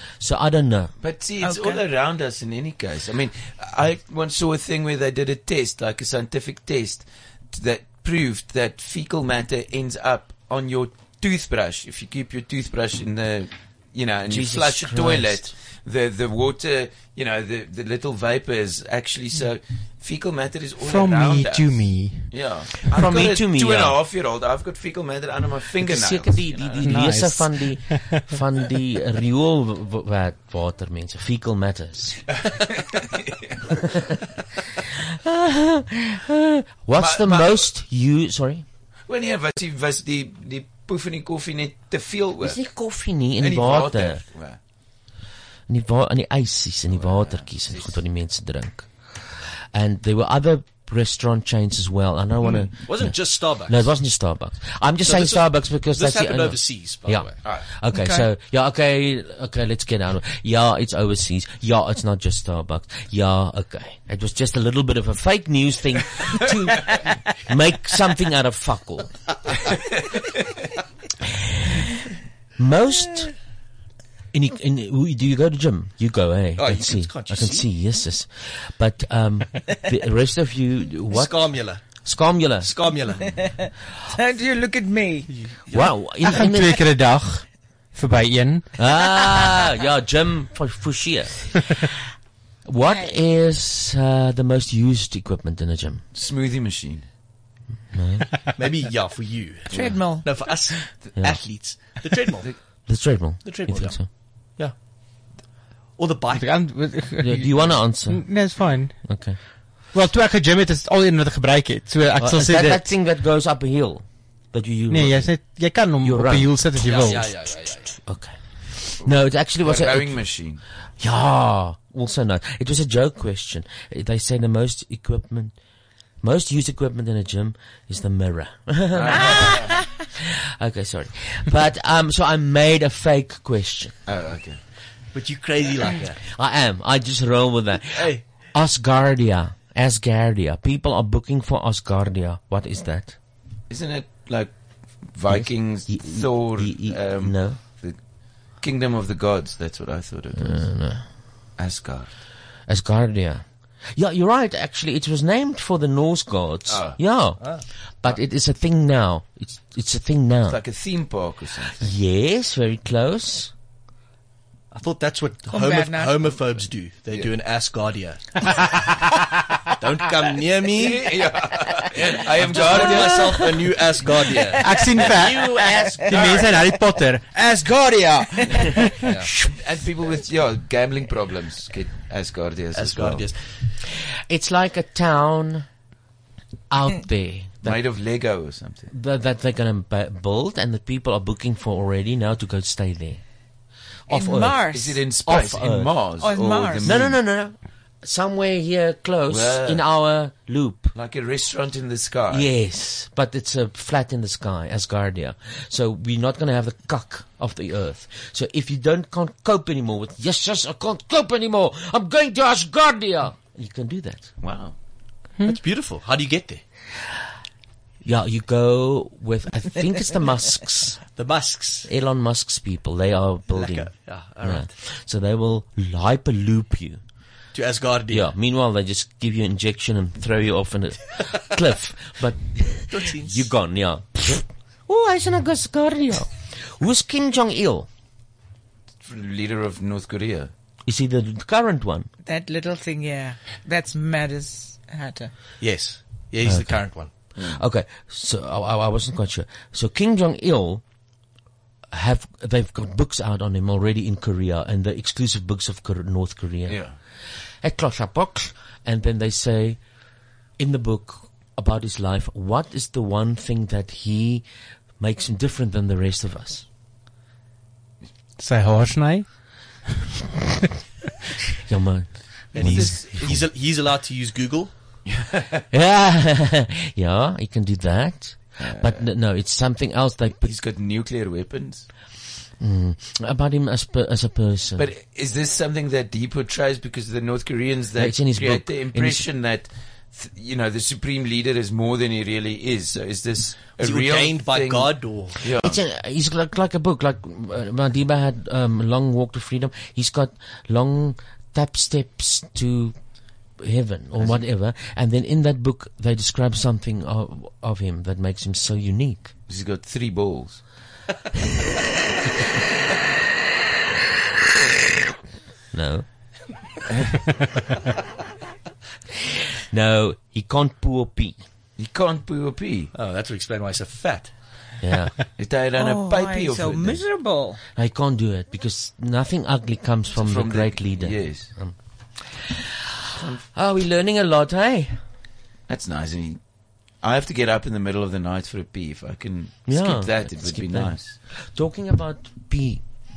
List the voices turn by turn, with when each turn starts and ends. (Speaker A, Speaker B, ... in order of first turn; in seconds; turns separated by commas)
Speaker A: 0.2-0.9, Speaker B: 1.0-27.0, Speaker C: 1.4-1.8, Speaker A: 14.3-15.5, Speaker D: 20.8-22.3, Speaker A: 22.9-24.0, Speaker A: 25.8-32.2, Speaker D: 26.8-28.2, Speaker B: 32.6-33.6, Speaker A: 35.2-38.6, Speaker B: 36.9-37.7, Speaker B: 39.1-42.6, Speaker A: 42.4-44.2, Speaker B: 43.4-44.6, Speaker A: 45.7-69.2, Speaker B: 46.9-48.0, Speaker E: 52.4-54.0, Speaker E: 55.0-57.4, Speaker C: 57.9-58.2, Speaker A: 72.6-73.3, Speaker A: 74.3-82.7, Speaker E: 76.6-77.7, Speaker E: 81.1-82.0, Speaker E: 82.6-83.4, Speaker C: 83.5-85.3, Speaker E: 85.3-86.1, Speaker A: 85.7-86.8, Speaker D: 86.2-88.7, Speaker A: 88.8-91.8, Speaker A: 92.7-96.0, Speaker B: 96.1-97.1, Speaker A: 97.9-98.3, Speaker E: 98.5-102.5, Speaker B: 99.7-100.0, Speaker C: 99.7-100.3, Speaker A: 102.8-104.1, Speaker E: 103.4-104.7, Speaker E: 106.0-106.5, Speaker D: 106.3-109.4, Speaker A: 107.2-109.4, Speaker D: 109.9-112.8, Speaker A: 112.2-120.2, Speaker D: 114.9-117.5, Speaker E: 116.8-118.0, Speaker B: 119.0-120.6, Speaker A: 121.0-125.5, Speaker A: 126.2-129.6, Speaker B: 128.9-129.8, Speaker A: 130.2-134.0, Speaker B: 134.1-134.6, Speaker E: 135.1-136.2, Speaker A: 136.3-143.2, Speaker E: 137.9-138.2, Speaker B: 143.7-148.0, Speaker A: 145.3-147.6, Speaker B: 148.5-150.7, Speaker A: 150.4-151.1, Speaker B: 151.6-152.1, Speaker A: 152.7-153.4, Speaker A: 153.9-160.6, Speaker B: 156.7-157.0, Speaker E: 157.4-157.7, Speaker B: 160.5-161.9, Speaker A: 161.8-163.5, Speaker E: 164.7-168.5, Speaker C: 165.5-166.3, Speaker B: 167.1-167.3, Speaker E: 169.8-171.1, Speaker B: 170.7-173.7, Speaker E: 172.2-176.4, Speaker D: 174.6-179.1, Speaker C: 175.4-176.0, Speaker B: 176.1-176.4, Speaker B: 179.3-183.3, Speaker E: 182.7-183.7, Speaker A: 184.3-185.7, Speaker A: 186.7-187.8, Speaker B: 187.6-188.9, Speaker A: 188.9-193.2, Speaker A: 194.1-195.9, Speaker C: 194.1-195.0, Speaker B: 194.7-197.2, Speaker C: 196.2-196.9, Speaker A: 196.8-200.9, Speaker B: 199.3-199.8, Speaker B: 200.9-202.5, Speaker A: 202.3-214.3, Speaker B: 214.4-214.8, Speaker E: 215.5-216.6, Speaker A: 218.0-221.0, Speaker E: 221.1-221.9, Speaker A: 221.8-227.0, Speaker E: 223.5-224.7, Speaker E: 227.5-228.3, Speaker A: 228.1-237.9, Speaker E: 232.9-233.5, Speaker B: 239.0-240.5, Speaker A: 240.8-242.1, Speaker C: 242.2-245.3, Speaker E: 245.6-247.1, Speaker A: 246.4-250.8, Speaker B: 247.3-247.6, Speaker A: 251.9-256.8, Speaker B: 256.7-256.9, Speaker A: 257.6-259.8, Speaker A: 260.6-264.4, Speaker A: 265.0-266.6, Speaker D: 268.4-269.3, Speaker A: 271.7-273.4, Speaker B: 272.5-273.4, Speaker E: 272.5-274.7, Speaker B: 275.0-275.6, Speaker A: 275.7-280.5, Speaker B: 278.6-279.1, Speaker B: 280.4-281.9, Speaker A: 282.6-284.9, Speaker B: 284.8-295.8, Speaker A: 288.0-289.3, Speaker E: 293.8-295.4, Speaker A: 295.6-302.9, Speaker A: 303.6-309.3, Speaker B: 309.5-310.6, Speaker A: 315.7-316.1, Speaker A: 319.7-321.4, Speaker B: 321.8-322.9, Speaker E: 322.9-324.3, Speaker A: 324.8-325.1, Speaker B: 325.4-327.0, Speaker C: 325.8-327.6, Speaker A: 327.8-331.8, Speaker B: 330.1-331.5, Speaker B: 333.2-333.4, Speaker A: 333.5-335.0, Speaker B: 335.7-336.4, Speaker B: 337.0-341.2, Speaker A: 339.7-342.8